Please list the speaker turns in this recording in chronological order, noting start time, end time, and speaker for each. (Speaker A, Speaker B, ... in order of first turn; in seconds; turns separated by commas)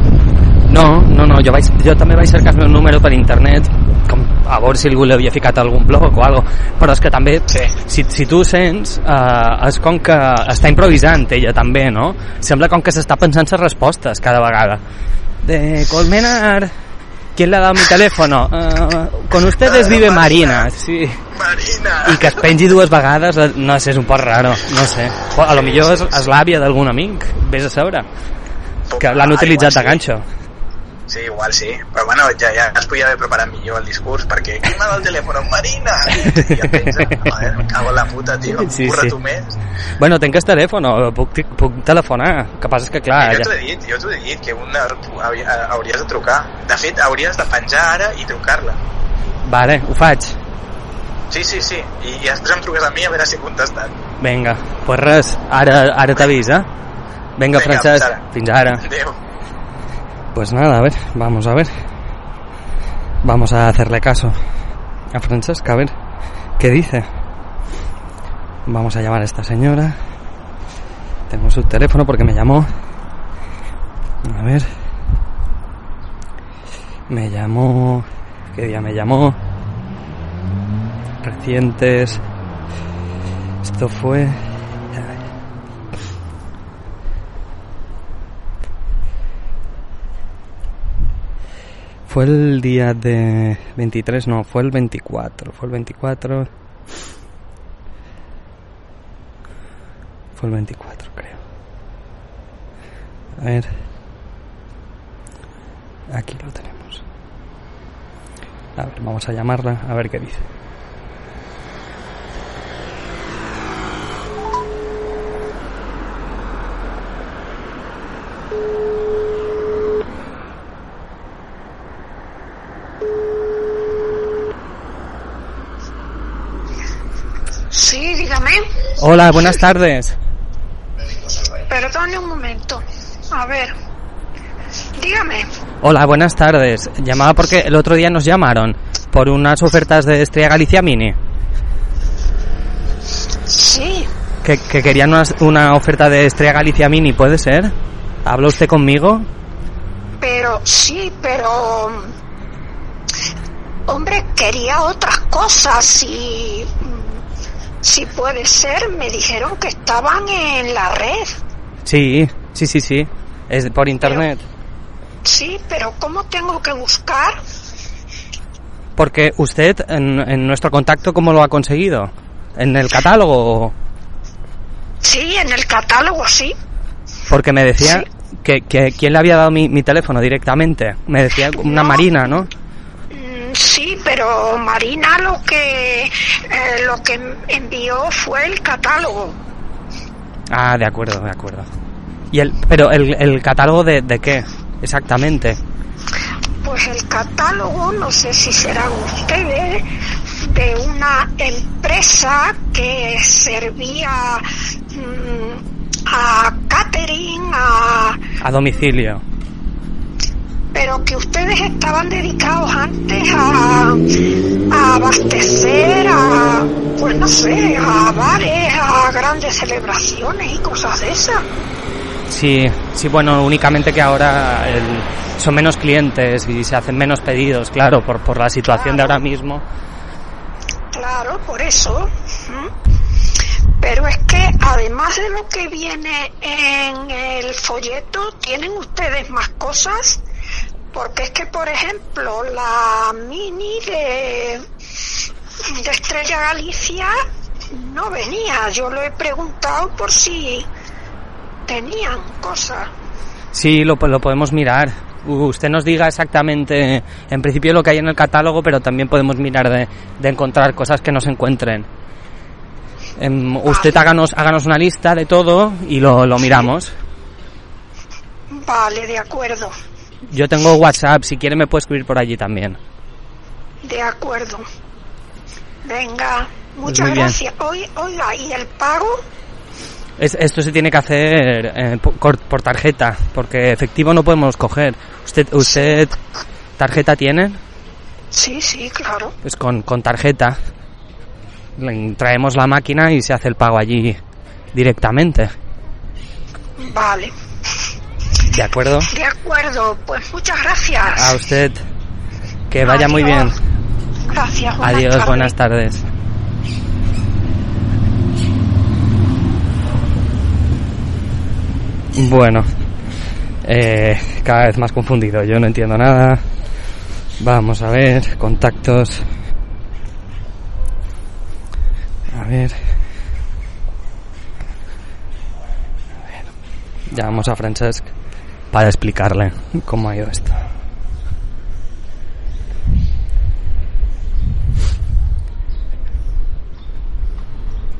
Speaker A: 0.7-14.8, Speaker A: 15.4-16.7, Speaker A: 17.4-21.2, Speaker B: 19.5-20.7, Speaker B: 21.3-22.4, Speaker A: 22.0-28.1, Speaker B: 25.5-26.2, Speaker B: 28.9-30.0, Speaker A: 29.0-30.2, Speaker B: 31.1-39.5, Speaker A: 36.2-37.4, Speaker A: 38.5-39.1, Speaker A: 40.0-43.5, Speaker B: 43.2-48.8, Speaker A: 49.4-50.4, Speaker B: 51.3-53.9, Speaker A: 54.2-56.7, Speaker A: 57.4-58.9, Speaker B: 57.5-58.2, Speaker B: 58.8-59.2, Speaker A: 60.3-61.8, Speaker A: 63.2-64.4, Speaker A: 65.1-65.9, Speaker A: 66.6-67.1, Speaker A: 68.7-70.0, Speaker A: 71.3-72.7, Speaker A: 74.2-74.7, Speaker A: 77.1-79.4, Speaker A: 81.2-82.2, Speaker A: 83.6-84.4, Speaker A: 84.9-85.2, Speaker A: 92.1-96.5, Speaker A: 100.4-101.4, Speaker A: 103.4-103.7, Speaker A: 106.1-107.0, Speaker A: 108.8-110.5, Speaker C: 127.7-128.6, Speaker A: 129.0-130.2, Speaker C: 131.7-133.7, Speaker C: 135.0-135.5, Speaker A: 135.8-141.2, Speaker C: 143.5-144.1, Speaker A: 144.4-147.7, Speaker A: 148.2-149.3, Speaker C: 150.2-152.1, Speaker C: 153.9-157.2, Speaker C: 157.8-161.4, Speaker A: 161.8-164.4, Speaker C: 165.2-167.4, Speaker A: 168.9-173.7, Speaker C: 175.0-176.6, Speaker A: 177.3-182.5, Speaker C: 177.8-178.1, Speaker C: 181.5-182.4, Speaker C: 183.1-189.4, Speaker A: 190.5-191.7, Speaker A: 192.3-195.6, Speaker C: 196.6-199.9, Speaker C: 200.4-208.2, Speaker A: 208.4-209.2, Speaker C: 210.7-214.0, Speaker C: 214.7-221.4, Speaker A: 222.3-229.6, Speaker C: 228.7-229.2, Speaker C: 230.9-232.7, Speaker C: 233.8-240.2, Speaker C: 240.9-244.6, Speaker C: 245.7-247.1, Speaker C: 247.7-250.7, Speaker C: 251.7-252.9, Speaker A: 253.5-261.9, Speaker A: 263.2-266.9, Speaker C: 263.7-264.1, Speaker C: 268.5-269.7, Speaker A: 270.3-272.8, Speaker C: 273.8-274.6, Speaker C: 275.8-279.2, Speaker A: 276.9-277.4, Speaker A: 280.2-286.1, Speaker C: 285.6-286.0, Speaker A: 286.8-287.6, Speaker C: 288.3-289.4, Speaker A: 289.4-290.6, Speaker A: 291.8-294.2, Speaker A: 294.7-295.5, Speaker C: 296.8-297.3, Speaker A: 298.5-299.1, Speaker C: 299.1-301.4, Speaker A: 301.1-301.8, Speaker A: 302.7-303.6, Speaker C: 302.8-303.6, Speaker C: 304.3-305.5, Speaker A: 304.8-306.0, Speaker A: 312.1-312.6, Speaker A: 313.6-316.4, Speaker A: 317.4-319.2, Speaker A: 322.3-322.9, Speaker A: 327.1-328.1, Speaker A: 328.7-330.6